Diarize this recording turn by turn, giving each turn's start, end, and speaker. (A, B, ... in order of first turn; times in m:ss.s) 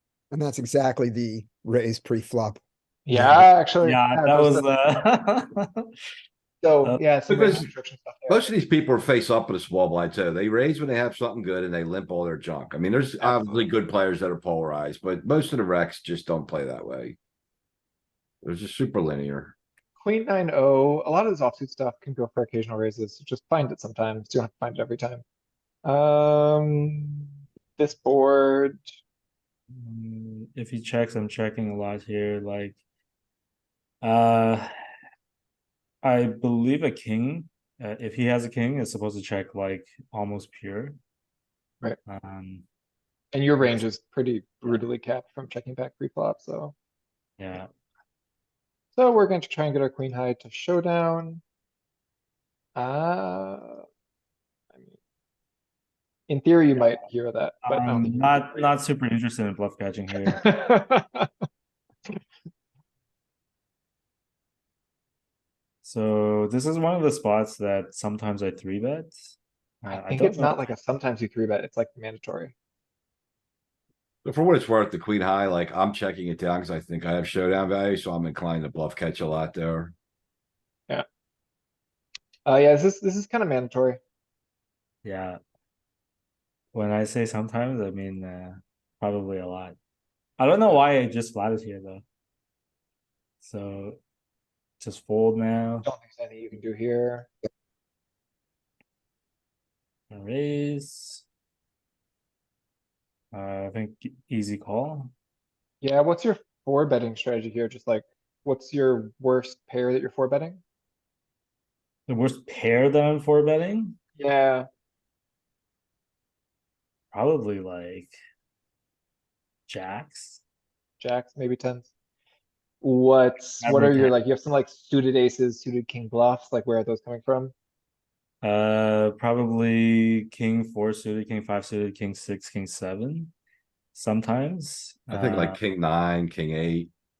0:00.3-0:02.6 A
0:03.1-0:04.7 B
0:03.1-0:03.5 A
0:03.8-0:05.9 C
0:06.6-0:08.5 B
0:07.3-0:07.7 D
0:08.3-0:17.2 D
0:13.2-0:13.7 B
0:18.4-0:19.6 D
0:20.0-0:25.2 B
0:25.8-0:28.8 B
0:29.7-0:32.8 C
0:34.0-0:34.7 C
0:36.0-0:41.0 C
0:42.1-0:42.6 C
0:43.3-0:46.8 B
0:47.4-0:47.7 C
0:49.0-0:51.4 B
0:52.8-0:53.8 B
0:56.3-0:58.7 B
0:57.6-1:00.5 C
1:00.3-1:01.3 B
1:05.8-1:09.2 C
1:09.8-1:12.6 B
1:09.8-1:10.7 C
1:14.2-1:19.9 D
1:22.5-1:24.0 B
1:25.0-1:25.4 C
1:26.7-1:29.8 C
1:30.4-1:32.0 C
1:33.4-1:34.0 C
1:34.8-1:35.9 C
1:35.8-1:37.3 B
1:40.1-1:41.2 C
1:43.3-1:45.1 C
1:45.8-1:50.6 B
1:52.1-1:54.0 C
1:54.2-1:54.7 B
1:57.1-1:58.2 C
1:59.7-2:00.4 C
2:01.0-2:01.9 B
2:02.8-2:07.5 B
2:03.6-2:04.2 C
2:08.4-2:13.3 C
2:13.9-2:15.6 C
2:15.1-2:16.9 D